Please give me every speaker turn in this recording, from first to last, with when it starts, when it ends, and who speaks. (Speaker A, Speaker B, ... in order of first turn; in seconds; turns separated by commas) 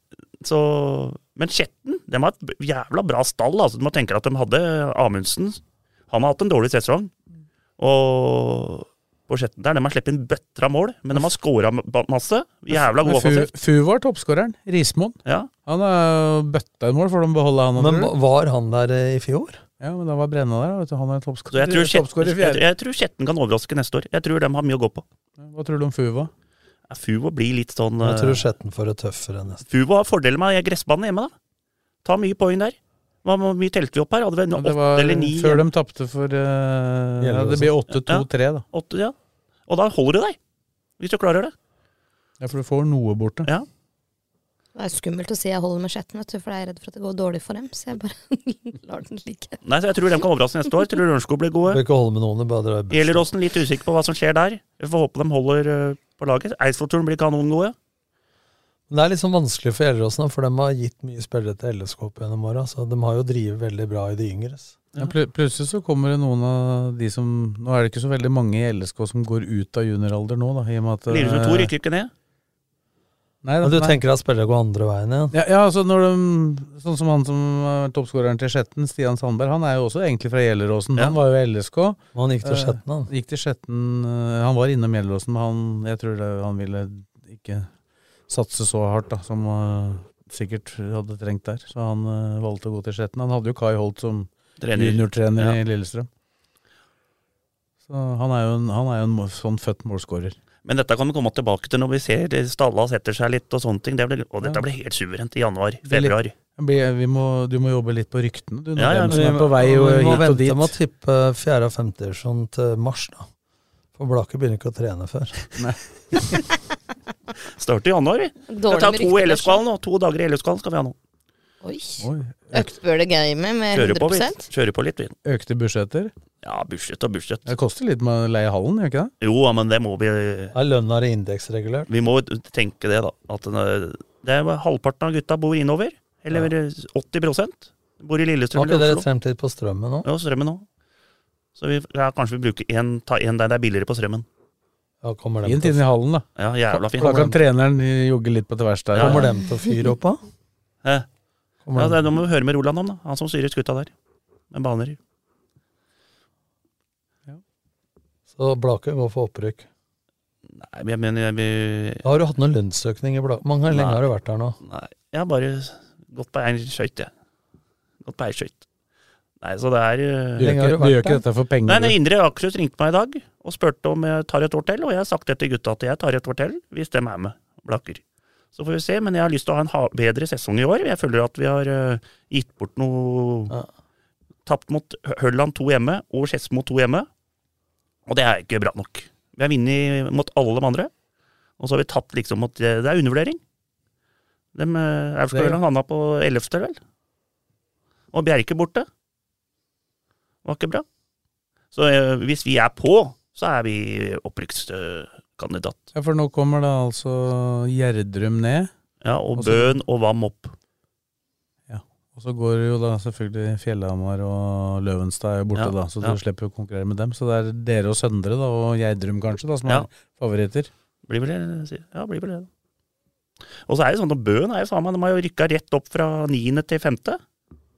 Speaker A: 0.4-7.1, Speaker A: 7.8-13.5, Speaker B: 12.7-18.1, Speaker A: 15.2-15.5, Speaker C: 17.8-19.6, Speaker B: 19.8-22.6, Speaker A: 21.5-25.0, Speaker B: 25.4-26.3, Speaker A: 26.9-28.4, Speaker C: 28.0-29.6, Speaker A: 29.6-31.3, Speaker A: 32.0-35.6, Speaker B: 34.5-38.6, Speaker C: 37.2-37.7, Speaker A: 38.0-39.1, Speaker A: 39.7-40.4, Speaker A: 41.0-41.5, Speaker B: 42.4-43.5, Speaker D: 44.8-49.6, Speaker A: 49.6-51.8, Speaker C: 51.7-53.3, Speaker A: 52.9-57.8, Speaker C: 58.9-64.8, Speaker B: 65.0-71.7, Speaker A: 71.1-72.1, Speaker B: 73.4-74.0, Speaker C: 73.6-75.3, Speaker B: 75.3-87.7, Speaker C: 82.1-83.1, Speaker B: 88.3-96.1, Speaker A: 94.6-95.6, Speaker B: 97.9-100.3, Speaker A: 100.6-106.3, Speaker B: 105.8-110.7, Speaker A: 108.8-109.4, Speaker C: 109.1-113.3, Speaker C: 113.9-115.4, Speaker B: 115.6-116.4, Speaker A: 117.6-121.0, Speaker D: 118.5-119.6, Speaker D: 121.6-124.5, Speaker B: 122.0-122.7, Speaker A: 123.7-125.1, Speaker B: 125.2-126.1, Speaker A: 126.4-127.5, Speaker B: 127.5-129.1, Speaker A: 129.2-130.5, Speaker C: 130.5-131.9, Speaker A: 131.9-139.0, Speaker C: 138.5-140.1, Speaker A: 140.0-140.6, Speaker A: 141.6-144.2, Speaker C: 145.0-145.8, Speaker B: 145.4-149.3, Speaker A: 146.4-147.4, Speaker A: 148.9-149.3, Speaker C: 148.9-150.2, Speaker C: 151.6-152.0, Speaker A: 151.7-153.9, Speaker A: 154.5-155.0, Speaker C: 158.3-159.7, Speaker A: 160.5-162.1, Speaker C: 162.0-164.6, Speaker A: 163.7-164.0, Speaker A: 164.6-167.1, Speaker A: 168.0-168.6, Speaker A: 169.4-170.5, Speaker B: 170.4-172.0, Speaker C: 170.4-171.2, Speaker A: 171.7-178.0, Speaker A: 178.5-183.5, Speaker A: 184.4-187.1, Speaker A: 188.1-190.9, Speaker A: 191.6-193.4, Speaker A: 194.5-196.8, Speaker B: 195.3-195.6, Speaker A: 198.1-198.9, Speaker A: 200.4-200.8, Speaker A: 201.7-205.9, Speaker B: 205.9-208.7, Speaker A: 209.0-210.5, Speaker B: 209.4-209.8, Speaker B: 211.7-220.7, Speaker A: 215.5-216.2, Speaker A: 221.1-222.5, Speaker A: 223.7-227.2